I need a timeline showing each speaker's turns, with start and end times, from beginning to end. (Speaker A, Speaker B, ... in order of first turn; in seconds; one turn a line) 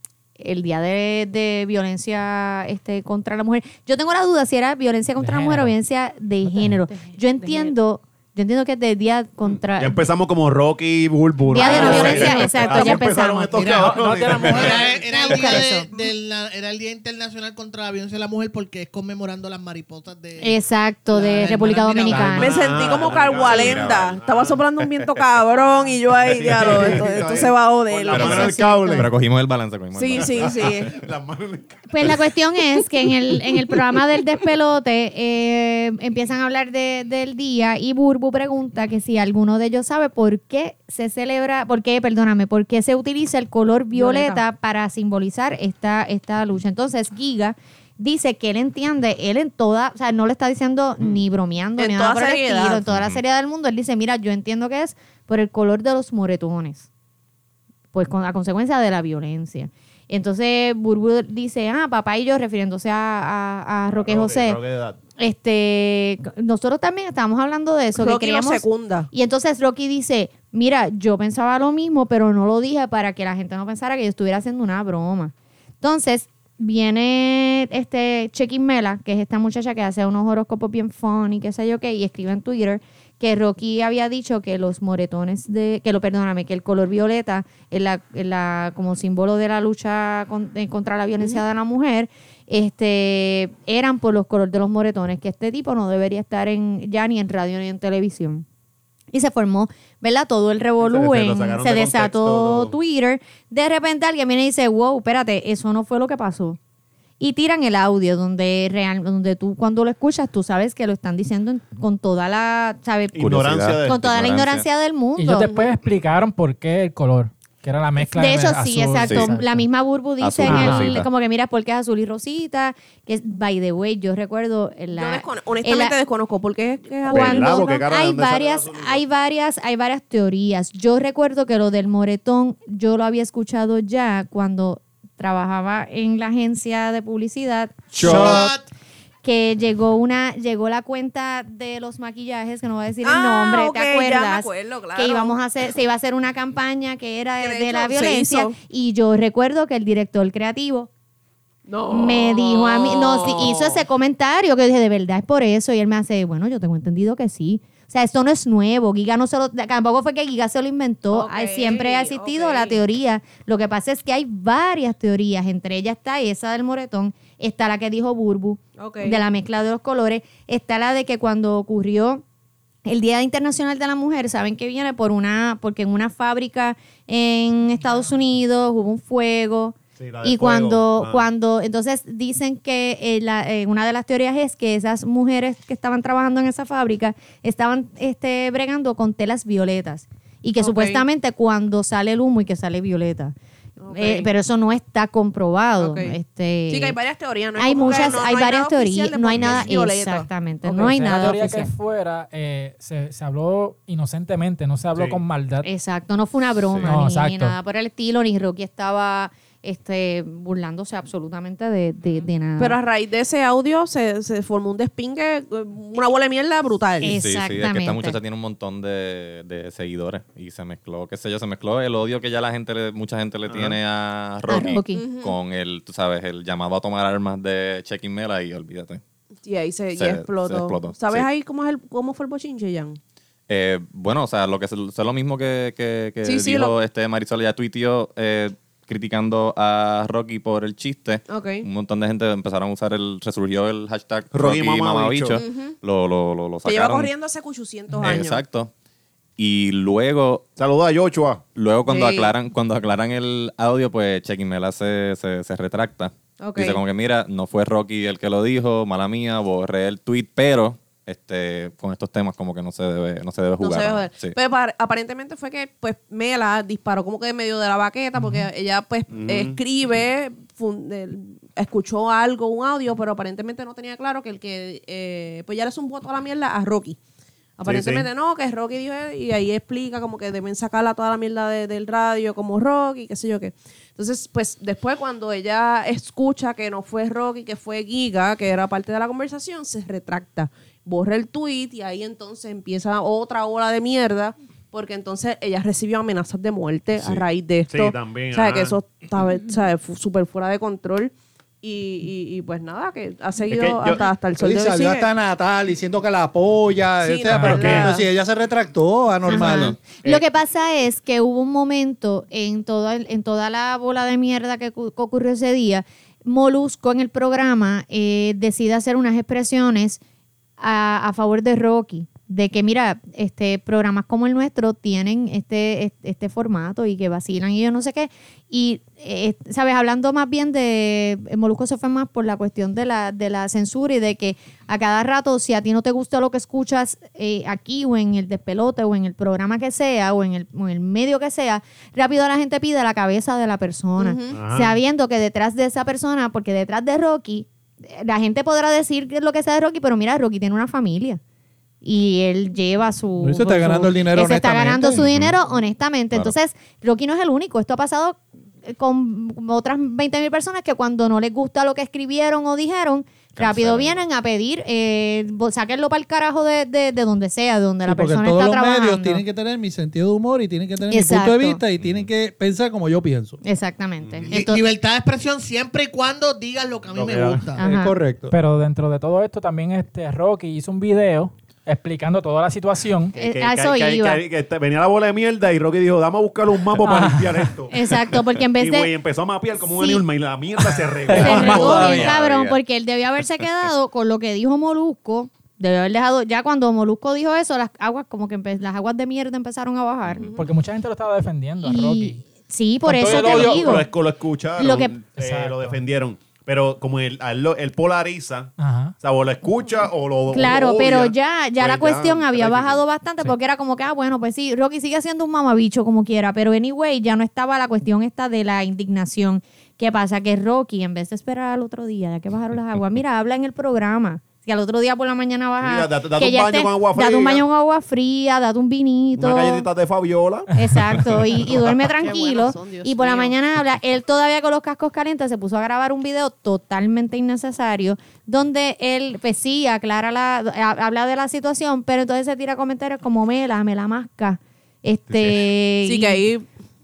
Speaker A: 0.4-10.0
Speaker B: 5.2-5.8
Speaker C: 7.4-7.7
Speaker D: 9.8-15.0
Speaker A: 11.5-13.8
Speaker C: 11.6-12.8
Speaker E: 11.7-12.2
Speaker E: 13.5-22.5
Speaker A: 14.8-16.0
Speaker A: 20.4-22.5
Speaker D: 22.1-24.6
Speaker C: 22.4-28.5
Speaker F: 23.3-24.2
Speaker D: 26.2-29.1
Speaker F: 28.1-30.6
Speaker A: 28.2-29.1
Speaker C: 29.9-30.9
Speaker D: 30.1-32.3
Speaker A: 31.9-56.9
Speaker C: 43.9-44.4
Speaker C: 51.8-52.8
Speaker F: 52.9-53.2
Speaker A: 57.9-64.6
Speaker D: 63.9-65.0
Speaker A: 65.2-98.5
Speaker C: 68.0-69.1
Speaker A: 99.1-106.6
Speaker D: 100.8-102.8
Speaker A: 107.2-115.6
Speaker D: 113.2-114.0
Speaker F: 113.2-114.7
Speaker B: 115.2-119.7
Speaker A: 118.0-126.0
Speaker F: 119.0-119.3
Speaker F: 120.2-121.1
Speaker D: 120.5-121.0
Speaker C: 124.9-127.8
Speaker A: 127.0-138.5
Speaker D: 127.1-129.0
Speaker F: 138.0-138.4
Speaker D: 138.0-138.5
Speaker E: 138.0-138.7
Speaker A: 139.2-150.9
Speaker C: 143.0-145.4
Speaker C: 147.4-148.6
Speaker C: 151.7-153.9
Speaker A: 151.9-172.2
Speaker C: 161.1-162.8
Speaker C: 168.8-169.2
Speaker A: 172.8-193.3
Speaker D: 180.0-181.3
Speaker C: 190.6-191.0
Speaker C: 193.8-194.3
Speaker A: 193.9-197.0
Speaker C: 195.8-196.2
Speaker C: 196.7-200.3
Speaker A: 197.6-201.7
Speaker D: 197.8-198.2
Speaker B: 200.7-205.7
Speaker D: 204.9-205.2
Speaker A: 205.6-212.8
Speaker B: 206.8-207.6
Speaker C: 212.6-217.2
Speaker A: 217.0-218.2
Speaker F: 217.1-229.0
Speaker D: 223.5-223.8
Speaker A: 224.5-225.1
Speaker C: 224.9-225.4
Speaker C: 229.4-233.0
Speaker F: 230.0-231.3
Speaker F: 233.5-247.1
Speaker C: 236.2-236.8
Speaker C: 241.3-241.7
Speaker D: 244.3-245.4
Speaker C: 245.4-245.7
Speaker C: 246.7-248.4
Speaker F: 247.9-248.7
Speaker F: 249.4-250.5
Speaker D: 250.6-251.4
Speaker F: 251.6-264.4
Speaker C: 251.9-252.3
Speaker C: 256.4-256.8
Speaker C: 263.6-277.0
Speaker B: 268.2-268.5
Speaker D: 269.1-269.6
Speaker C: 277.6-305.1
Speaker D: 277.6-278.1
Speaker D: 297.7-298.8
Speaker D: 303.5-304.0
Speaker G: 304.4-309.8
Speaker C: 307.0-308.1
Speaker B: 307.3-307.8
Speaker D: 307.4-308.0
Speaker A: 309.3-320.0
Speaker F: 309.3-309.6
Speaker D: 309.4-310.2
Speaker A: 320.6-351.2
Speaker C: 344.0-344.4
Speaker D: 344.3-344.8
Speaker A: 351.8-369.2
Speaker G: 353.2-355.1
Speaker F: 355.1-355.4
Speaker F: 363.3-364.0
Speaker G: 367.9-373.4
Speaker A: 370.9-371.6
Speaker A: 373.4-374.6
Speaker D: 374.0-374.3
Speaker E: 374.3-377.6
Speaker D: 376.9-377.5
Speaker A: 377.6-378.0
Speaker G: 377.6-378.4
Speaker B: 378.3-383.2
Speaker D: 383.1-387.9
Speaker A: 383.2-384.2
Speaker B: 386.8-387.5
Speaker A: 387.7-388.9
Speaker D: 388.6-392.1
Speaker A: 389.7-390.0
Speaker B: 391.1-391.9
Speaker A: 391.1-400.3
Speaker F: 391.1-392.6
Speaker B: 400.4-402.2
Speaker A: 401.6-403.9
Speaker B: 402.8-403.9
Speaker D: 403.0-412.8
Speaker A: 404.6-405.0
Speaker B: 405.2-405.8
Speaker B: 408.6-408.9
Speaker A: 410.3-429.7
Speaker D: 425.6-427.5
Speaker D: 429.2-430.5
Speaker A: 430.6-446.2
Speaker C: 431.7-433.4
Speaker D: 445.1-445.5
Speaker C: 445.9-446.4